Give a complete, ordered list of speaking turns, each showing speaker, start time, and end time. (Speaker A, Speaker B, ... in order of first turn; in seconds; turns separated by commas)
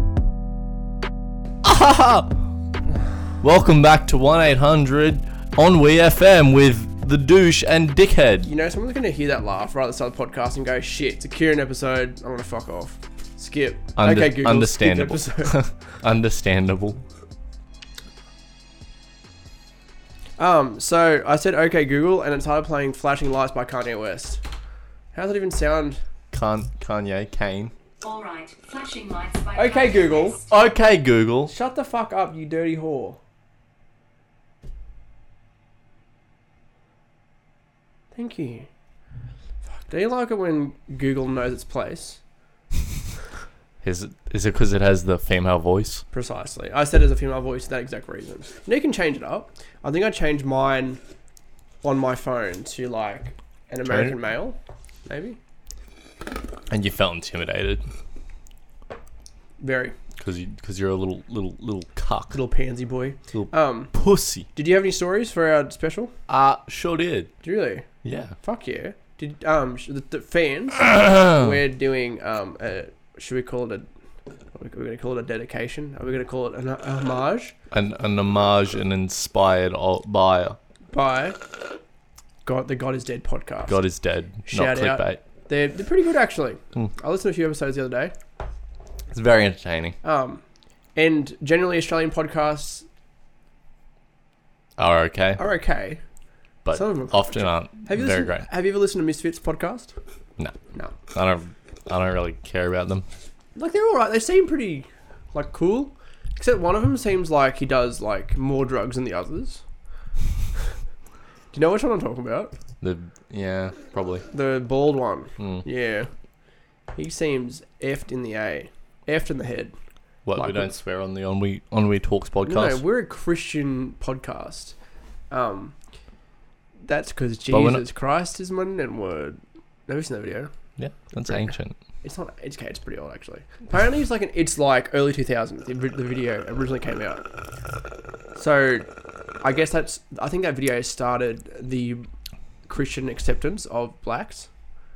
Speaker A: 1.6-2.4, Speaker A: 3.4-8.5, Speaker B: 8.4-15.6, Speaker A: 13.9-17.0, Speaker B: 20.4-24.4, Speaker B: 25.1-26.0, Speaker A: 26.3-27.7, Speaker C: 28.0-30.5, Speaker B: 29.5-30.4, Speaker A: 30.5-31.5, Speaker B: 31.5-33.2, Speaker B: 38.1-38.7, Speaker B: 39.9-42.2, Speaker A: 43.8-46.0, Speaker B: 46.1-51.0, Speaker B: 51.8-55.4, Speaker A: 53.9-54.1, Speaker A: 56.7-57.8, Speaker B: 59.6-60.0, Speaker A: 60.2-62.4, Speaker B: 62.3-63.9, Speaker A: 63.3-64.5, Speaker B: 64.5-66.1, Speaker A: 66.3-67.3, Speaker B: 67.4-67.8, Speaker A: 68.0-68.3, Speaker B: 68.4-73.9, Speaker A: 71.0-71.3, Speaker B: 74.5-77.5, Speaker A: 77.7-80.6, Speaker B: 80.9-81.4, Speaker B: 82.4-83.8, Speaker A: 83.7-85.2, Speaker B: 84.4-88.1, Speaker A: 89.1-90.0, Speaker B: 90.0-90.4, Speaker B: 91.0-92.9, Speaker A: 94.8-95.4, Speaker B: 95.4-96.0, Speaker A: 96.6-98.5, Speaker B: 96.7-100.0, Speaker A: 101.1-103.0, Speaker B: 103.5-109.6, Speaker B: 111.5-112.5, Speaker A: 112.8-114.3, Speaker B: 114.3-116.1, Speaker A: 115.4-115.6, Speaker B: 116.9-119.7, Speaker A: 120.2-122.8, Speaker B: 120.3-120.7, Speaker B: 122.5-124.8, Speaker B: 125.3-125.7, Speaker B: 126.8-130.5, Speaker A: 127.5-127.8, Speaker A: 130.8-131.8, Speaker B: 132.0-137.2, Speaker B: 138.3-138.9, Speaker B: 139.4-142.1, Speaker B: 142.7-144.5